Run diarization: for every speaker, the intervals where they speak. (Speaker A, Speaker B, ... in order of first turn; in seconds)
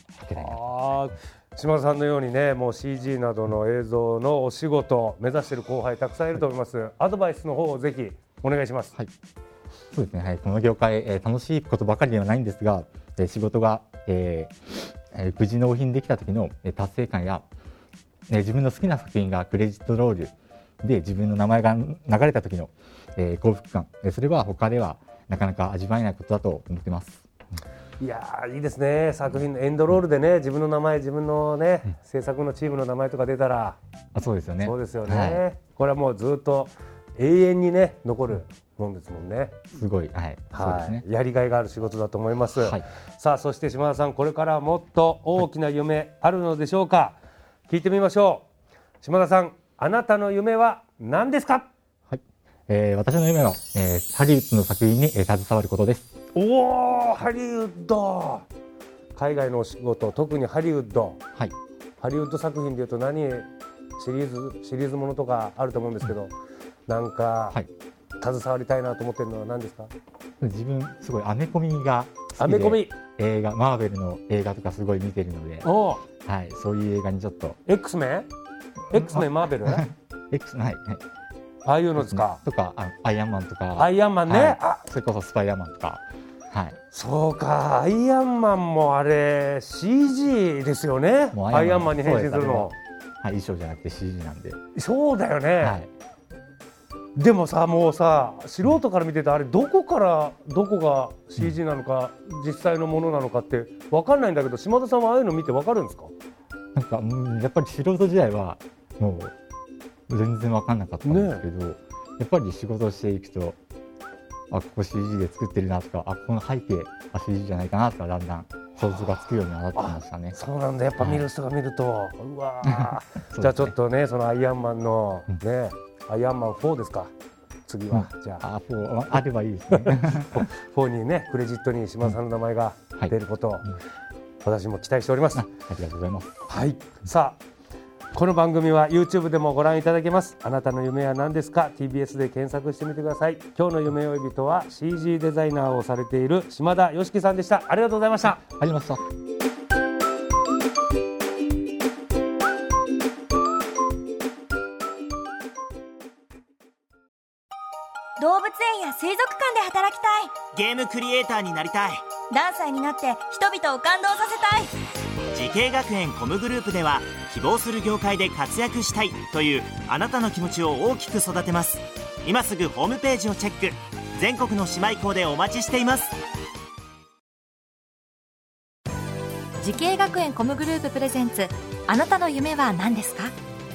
Speaker A: 0.1-1.1, 9.9-17.4, 18.3-27.2, 34.1-35.4, 39.7-41.0, 42.5-42.8, 52.1-56.1, 70.4-77.6, 78.9-81.0, 81.9-86.8, 91.3-94.6, 95.6-95.9, 106.7-109.3, 110.1-113.6, 114.5-120.4, 121.0-121.2, 122.6-123.7, 127.9-130.5, 135.3-136.4, 148.3-149.0
Speaker B: 0.3-8.9, 28.0-33.8, 34.6-39.6, 40.5-48.5, 49.0-51.7, 56.3-58.5, 59.1-61.2, 62.0-66.3, 66.9-67.6, 68.2-69.9, 72.4-73.0, 75.6-76.0, 77.7-78.3, 78.9-79.8, 81.6-82.4, 83.7-84.8, 86.9-92.7, 94.7-95.8, 97.1-106.1, 111.0-111.5, 118.8-119.1, 119.7-127.1, 127.7-128.4, 129.7-133.7, 134.4-135.4, 136.5-137.4, 138.1-148.4
Speaker C: 158.2-160.3, 162.3-164.7
Speaker D: 160.5-162.0, 165.3-176.1
Speaker E: 179.6-183.3